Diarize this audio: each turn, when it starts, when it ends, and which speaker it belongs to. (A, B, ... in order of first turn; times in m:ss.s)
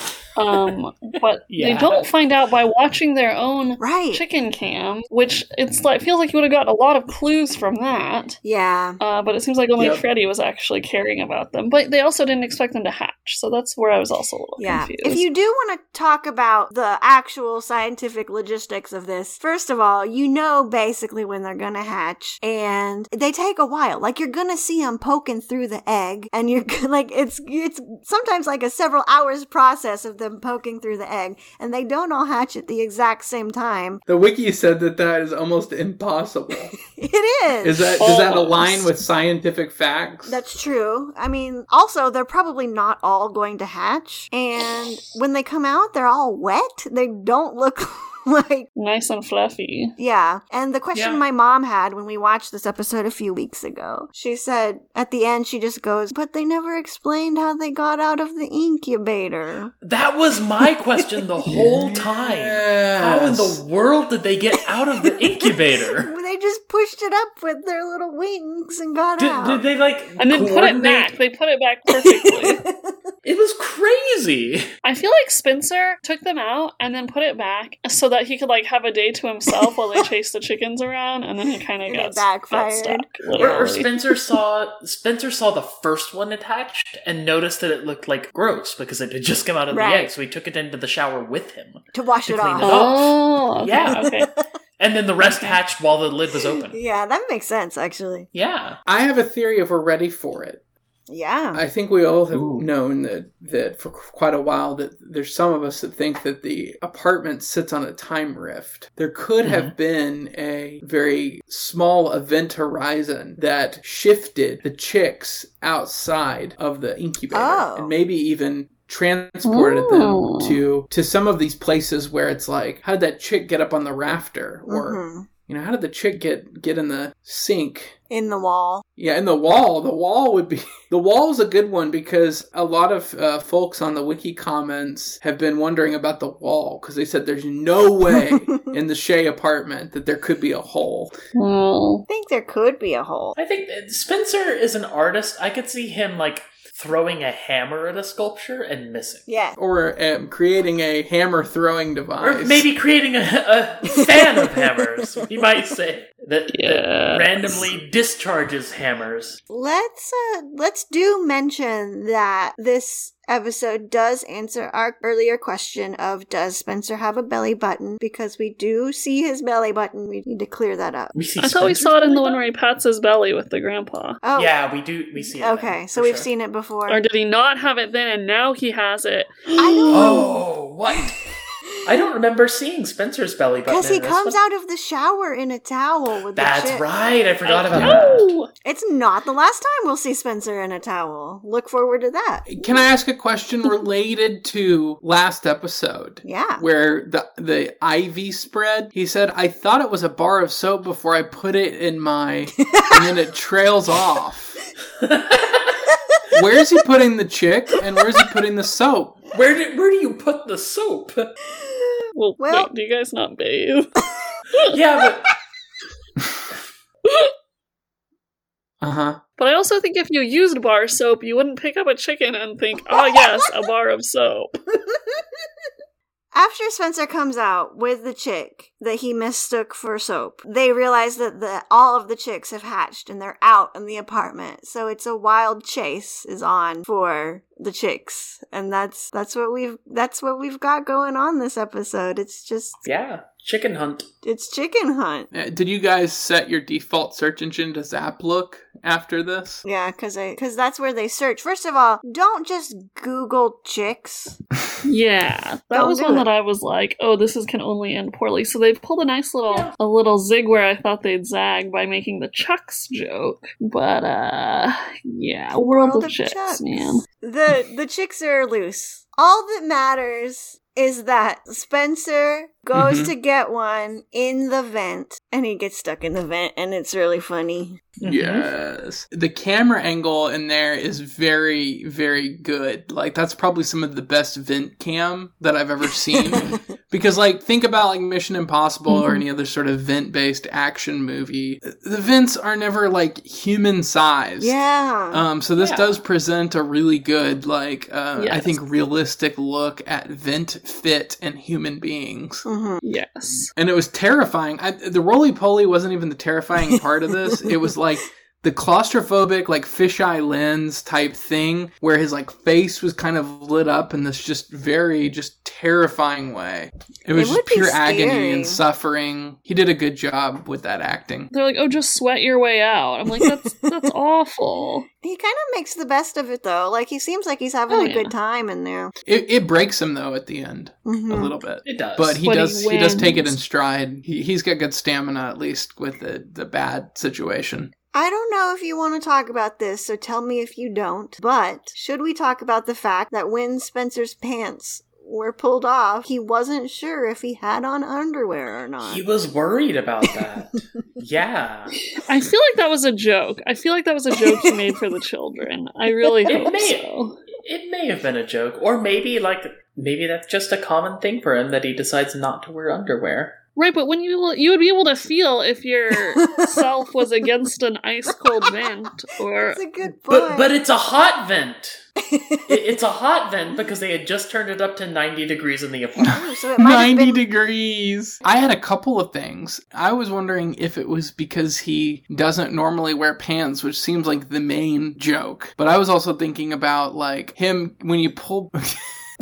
0:00.3-0:08.4 A
0:01.5-0:02.1 B
0:03.8-0:04.2 C
0:08.4-0:09.0 C
0:09.0-0:15.2 A
0:14.6-0:34.0 C
0:34.1-0:36.7 D
0:36.8-0:38.0 C
0:37.6-0:40.4 D
0:38.0-0:38.7 A
0:40.2-0:48.7 C
0:48.8-0:49.9 A
0:50.0-0:59.7 C
0:50.9-0:51.2 B
0:59.8-1:06.1 B
1:01.5-1:03.6 D
1:05.5-1:09.6 C
1:09.2-1:11.1 B
1:10.2-1:12.6 A
1:11.9-1:13.0 C
1:13.2-1:14.6 B
1:14.8-1:23.9 A
1:21.8-1:23.5 C
1:23.4-1:34.1 B
1:29.7-1:30.1 C
1:31.9-1:32.8 C
1:32.6-1:34.3 A
1:34.0-1:34.4 C
1:34.8-1:36.8 B
1:36.5-1:38.3 C
1:38.3-1:38.8 B
1:38.8-1:40.6 D
1:41.1-1:41.6 C
1:41.5-2:07.9 D
1:42.3-1:42.7 B
1:49.4-1:49.7 B
1:57.3-1:57.9 C
1:59.4-2:00.6 A
2:04.7-2:05.3 C
2:08.1-2:08.8 C
2:09.0-2:21.1 D
2:21.3-2:22.0 A
2:22.1-2:23.3 C
2:23.4-2:29.2 B
2:29.3-2:29.6 C
2:29.6-2:32.7 D
2:32.2-2:39.4 B
2:36.5-2:37.6 A
2:39.5-2:51.1 C
2:51.1-2:52.4 B
2:51.4-2:54.2 A
2:54.2-2:54.5 C
2:54.4-2:56.3 B
2:55.2-2:57.0 C
2:56.9-3:00.2 A
2:59.6-3:00.4 C
2:59.9-3:01.2 B
3:01.8-3:04.4 B
3:03.7-3:06.8 C
3:06.3-3:08.3 B
3:07.4-3:08.5 A
3:07.7-3:08.2 D
3:08.6-3:12.8 C
3:12.5-3:24.6 D
3:16.2-3:16.6 C
3:22.6-3:23.0 C
3:25.0-3:25.8 B
3:26.3-3:29.2 D
3:29.3-3:31.3 B
3:31.6-3:32.7 C
3:32.1-3:34.8 A
3:34.6-3:35.3 B
3:37.1-3:37.3 A
3:38.8-3:39.2 D
3:39.4-3:44.6 A
3:44.9-3:45.2 C
3:46.3-4:02.8 C
4:02.8-4:04.1 B
4:04.2-4:05.3 C
4:05.3-4:09.6 D
4:09.6-4:14.4 C
4:14.8-4:27.0 A
4:15.7-4:16.3 C
4:25.6-4:37.8 C
4:32.7-4:33.1 D
4:38.0-4:38.5 B
4:38.0-4:54.5 D
4:54.4-4:55.2 C
4:55.1-5:02.4 D
4:55.6-4:56.0 B
4:58.2-4:58.6 A
5:02.4-5:02.8 C
5:02.8-5:03.5 A
5:03.6-5:21.3 D
5:17.1-5:18.6 C
5:21.3-5:24.9 A
5:25.0-5:28.9 C
5:27.7-5:28.1 A
5:29.0-5:37.7 D
5:30.8-5:31.3 C
5:31.6-5:32.2 B
5:32.2-5:33.3 A
5:37.9-5:49.0 C
5:48.8-5:51.8 B
5:52.0-5:57.2 A
5:54.3-5:54.6 C
5:56.3-6:03.4 B
6:03.6-6:09.6 A
6:06.2-6:06.5 C
6:08.3-6:08.7 C
6:09.3-6:10.5 C
6:10.1-6:11.8 B
6:12.0-6:12.6 C
6:12.5-6:16.2 B
6:16.0-6:17.2 C
6:16.0-6:28.8 D